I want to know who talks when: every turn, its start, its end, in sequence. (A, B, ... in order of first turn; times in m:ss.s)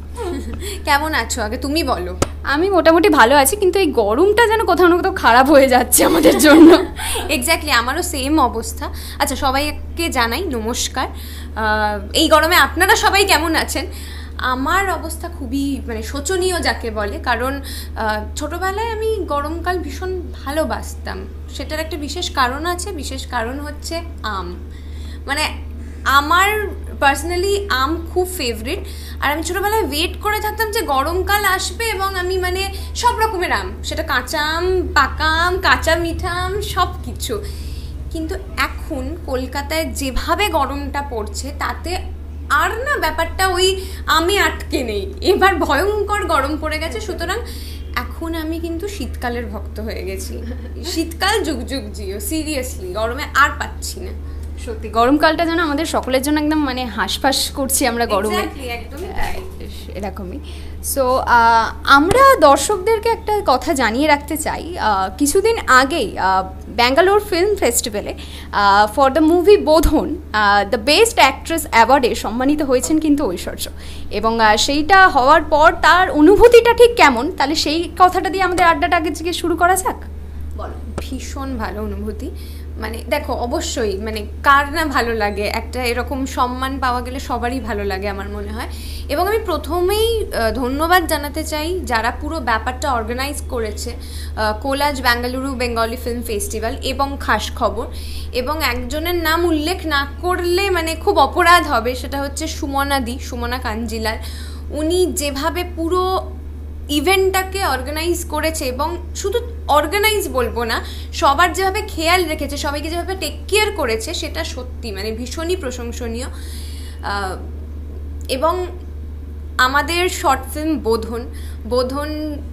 0:00.2-0:02.2 A
0:02.5-0:06.9 B
0:07.2-0:13.9 A
0:14.5-0:24.6 A
0:26.1-0:37.4 A
0:38.1-0:42.0 A
0:42.6-0:47.4 A
0:48.0-0:54.2 A
0:54.6-0:58.5 B
0:58.1-0:59.4 A
0:59.1-1:20.0 B
1:20.6-1:44.2 A
1:44.8-1:46.0 A
1:46.9-1:56.3 A
1:57.0-1:57.5 A
1:59.6-2:02.1 A